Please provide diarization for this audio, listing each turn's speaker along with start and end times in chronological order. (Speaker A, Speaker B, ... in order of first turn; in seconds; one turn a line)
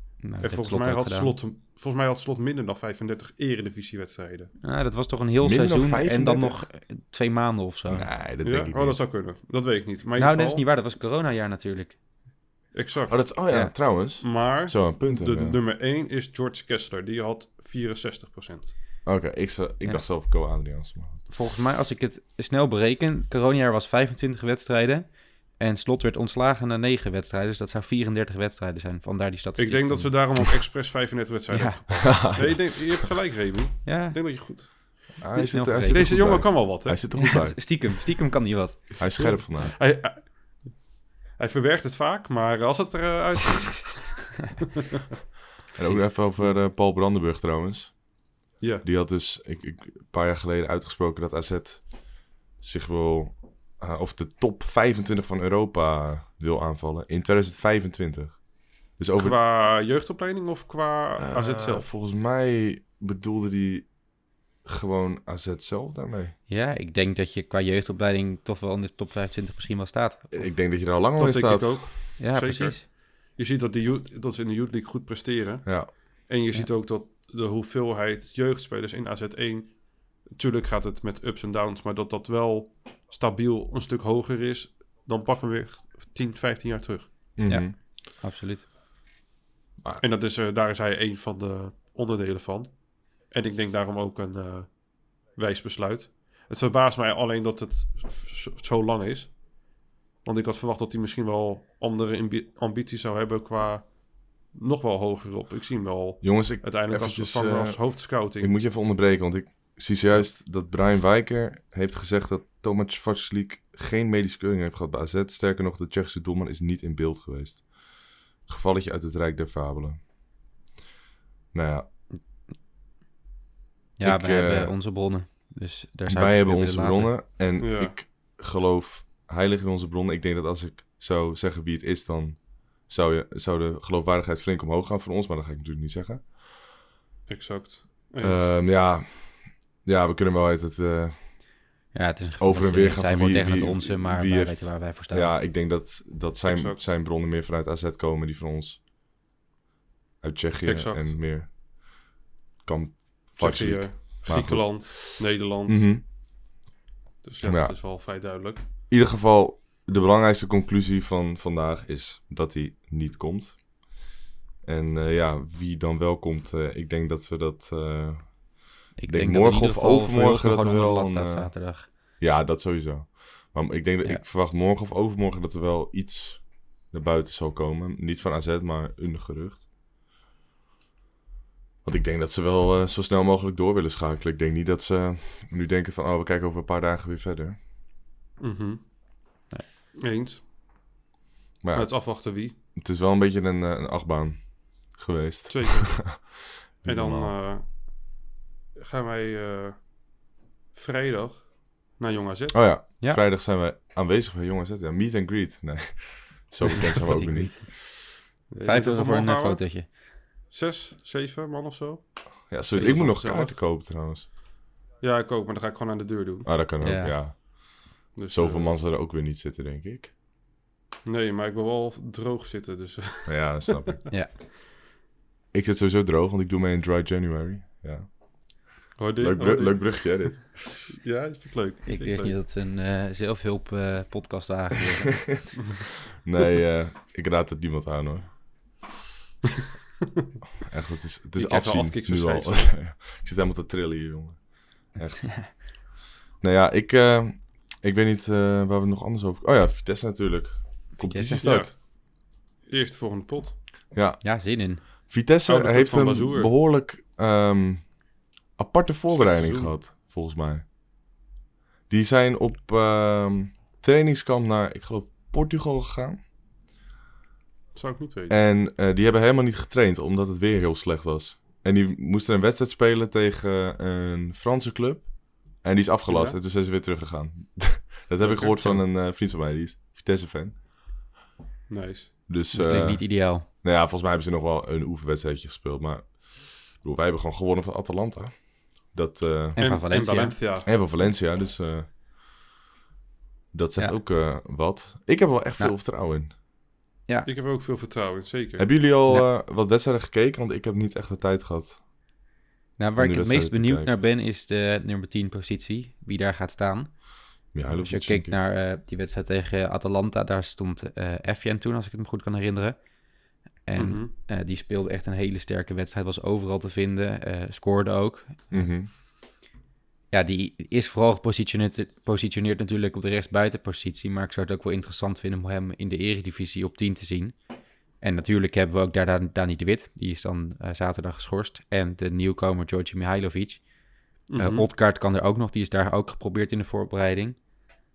Speaker A: 0.2-1.4
Speaker B: 0.4-4.5
Speaker A: 4.6-8.1
Speaker C: 5.4-6.6
Speaker C: 7.9-9.0
Speaker B: 8.4-10.6
Speaker A: 10.2-12.0
Speaker B: 12.7-13.4
Speaker C: 13.1-15.6
Speaker A: 13.5-13.7
Speaker B: 14.0-18.7
Speaker C: 19.1-21.2
Speaker A: 21.3-30.4
Speaker B: 29.6-35.2
Speaker A: 31.5-32.1
Speaker C: 32.0-32.9
Speaker A: 33.9-34.2
Speaker C: 35.2-37.9
Speaker A: 35.3-36.6
Speaker B: 35.9-37.2
Speaker A: 37.1-39.1
Speaker C: 39.0-39.8
Speaker B: 39.2-40.8
Speaker B: 41.4-44.4
Speaker A: 43.6-44.2
Speaker C: 45.7-48.0
Speaker A: 45.8-46.1
Speaker B: 48.6-48.9
Speaker C: 48.8-52.1
Speaker C: 52.6-59.4
Speaker B: 59.2-61.9
Speaker C: 61.2-63.9
Speaker C: 64.7-66.3
Speaker A: 66.5-70.3
Speaker C: 70.3-71.9
Speaker B: 71.2-87.2
Speaker A: 72.2-72.8
Speaker C: 75.7-75.9
Speaker C: 87.4-87.8
Speaker A: 87.5-88.7
Speaker B: 90.0-99.5
Speaker B: 100.2-108.5
Speaker C: 106.2-120.0
Speaker C: 121.5-121.9
Speaker A: 124.0-127.1
Speaker C: 124.0-124.7
Speaker C: 126.1-136.3
Speaker B: 127.6-128.0
Speaker B: 137.3-138.6
Speaker C: 138.2-141.2
Speaker A: 141.9-145.3
Speaker C: 142.4-148.8
Speaker B: 146.4-146.9
Speaker C: 150.2-151.5
Speaker B: 150.6-151.3
Speaker C: 152.6-156.0
Speaker B: 153.4-156.0
Speaker B: 157.2-158.6
Speaker C: 157.4-157.8
Speaker C: 158.9-163.8
Speaker C: 164.6-171.6
Speaker A: 169.0-171.9
Speaker C: 172.2-179.7
Speaker C: 181.8-187.6
Speaker B: 188.4-189.3
Speaker B: 189.9-190.4
Speaker C: 191.6-197.3
Speaker B: 191.7-192.5
Speaker B: 195.5-202.7
Speaker C: 202.5-208.0
Speaker A: 206.7-207.7
Speaker B: 208.5-209.9
Speaker A: 208.6-209.9
Speaker B: 210.5-213.7
Speaker C: 212.5-214.3
Speaker B: 215.0-216.6
Speaker C: 216.4-220.1
Speaker A: 216.8-217.2
Speaker B: 218.2-218.8
Speaker B: 221.1-224.0
Speaker C: 223.3-224.1
Speaker C: 225.5-230.9
Speaker B: 229.0-232.4
Speaker A: 231.9-235.6
Speaker C: 236.2-238.9
Speaker C: 240.7-251.7
Speaker B: 241.4-242.8
Speaker A: 251.0-251.4
Speaker B: 251.4-253.6
Speaker C: 253.9-258.0
Speaker A: 254.2-254.8
Speaker B: 255.5-256.5
Speaker C: 258.6-260.6
Speaker B: 259.1-259.8
Speaker C: 261.9-266.2
Speaker B: 267.8-268.4
Speaker C: 268.3-280.6
Speaker B: 276.1-276.4
Speaker B: 278.2-278.6
Speaker A: 278.6-278.8
Speaker B: 281.7-282.3
Speaker C: 282.3-289.6
Speaker A: 282.5-283.5
Speaker A: 289.6-290.4
Speaker B: 289.6-290.7
Speaker C: 290.6-291.9
Speaker C: 293.5-296.3
Speaker B: 297.3-298.8
Speaker C: 298.6-301.8
Speaker A: 302.8-312.8
Speaker C: 303.0-304.0
Speaker C: 307.5-308.4
Speaker A: 313.7-318.7
Speaker B: 313.8-314.1
Speaker C: 318.5-318.9
Speaker A: 320.1-327.4
Speaker A: 328.0-333.7
Speaker A: 334.2-337.4
Speaker B: 334.3-334.7